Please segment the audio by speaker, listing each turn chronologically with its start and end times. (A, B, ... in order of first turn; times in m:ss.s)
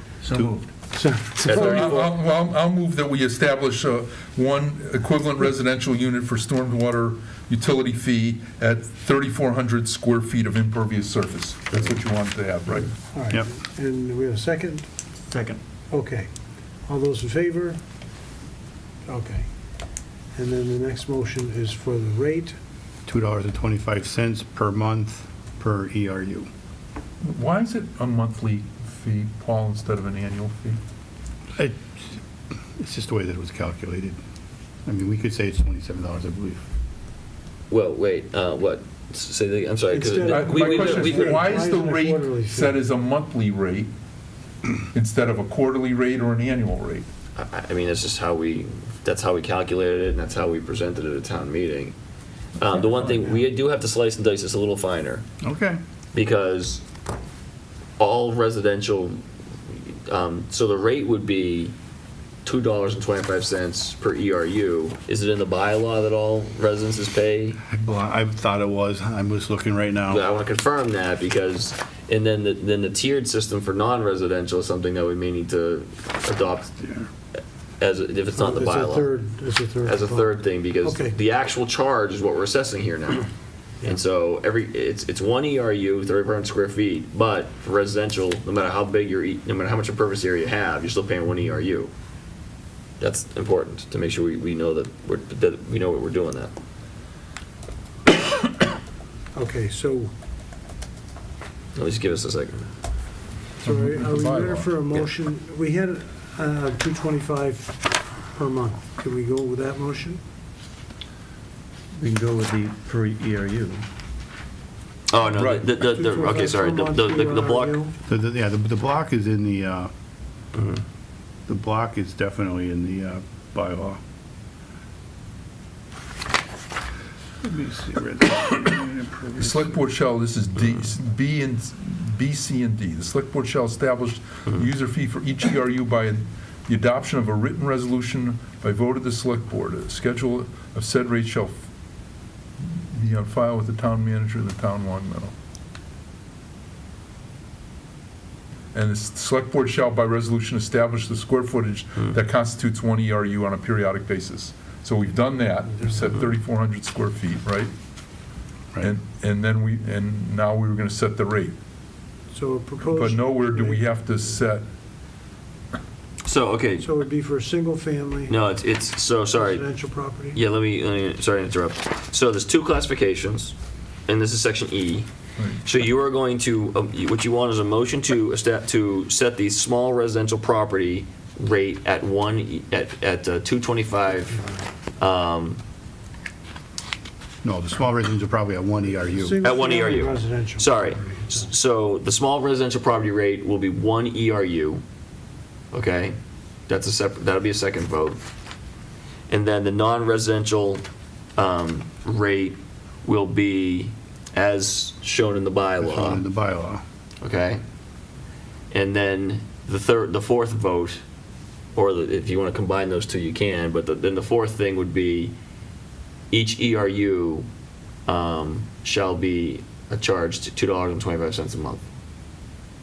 0:00.8-0:01.9 A
0:01.4-0:02.1 B
0:01.6-0:12.9 C
0:13.1-0:14.9 A
0:15.3-0:15.6 D
0:15.9-0:16.3 A
0:16.9-0:17.8 A
0:19.1-0:19.5 A
0:20.4-0:22.6 A
0:23.1-0:26.5 E
0:27.2-0:30.8 C
0:31.6-0:32.2 E
0:32.8-0:34.2 E
0:34.9-0:36.6 E
0:37.7-0:41.4 B
0:39.9-0:42.8 A
0:40.3-0:43.9 C
0:44.9-0:47.1 C
0:47.4-0:52.0 B
0:52.6-0:55.2 B
0:55.4-0:55.8 E
0:56.2-0:56.8 B
0:58.0-1:01.7 B
1:02.4-1:07.6 B
1:07.7-1:10.2 E
1:10.1-1:16.7 B
1:16.7-1:17.1 E
1:17.8-1:19.1 B
1:18.4-1:20.3 A
1:19.8-1:23.3 B
1:20.8-1:21.2 A
1:23.8-1:31.9 B
1:33.0-1:36.5 B
1:39.4-1:40.1 A
1:41.8-1:42.7 B
1:43.6-1:44.8 C
1:43.6-1:50.2 A
1:52.0-1:53.8 D
1:55.1-1:57.8 B
1:55.4-1:55.8 C
1:55.8-1:58.0 A
1:58.1-1:59.9 E
2:01.5-2:04.0 E
2:07.4-2:09.8 E
2:09.4-2:21.6 C
2:22.6-2:25.3 C
2:28.7-2:37.7 C
2:38.8-2:41.6 C
2:42.3-2:43.8 A
2:42.9-2:44.7 C
2:46.2-2:46.9 B
2:46.8-2:48.3 A
2:48.3-2:49.6 B
2:49.4-2:50.4 A
2:50.3-2:53.6 B
2:54.1-2:55.1 B
2:55.4-2:55.6 C
2:55.6-3:04.4 B
3:05.0-3:05.6 B
3:07.4-3:09.4 E
3:09.2-3:11.5 A
3:09.4-3:14.8 B
3:15.7-3:16.2 B
3:16.7-3:18.2 B
3:19.3-3:20.8 B
3:21.4-3:26.2 B
3:25.8-3:26.8 E
3:27.2-3:27.6 B
3:28.7-3:31.0 B
3:31.8-3:35.3 B
3:36.3-3:37.5 B
3:38.1-3:41.8 B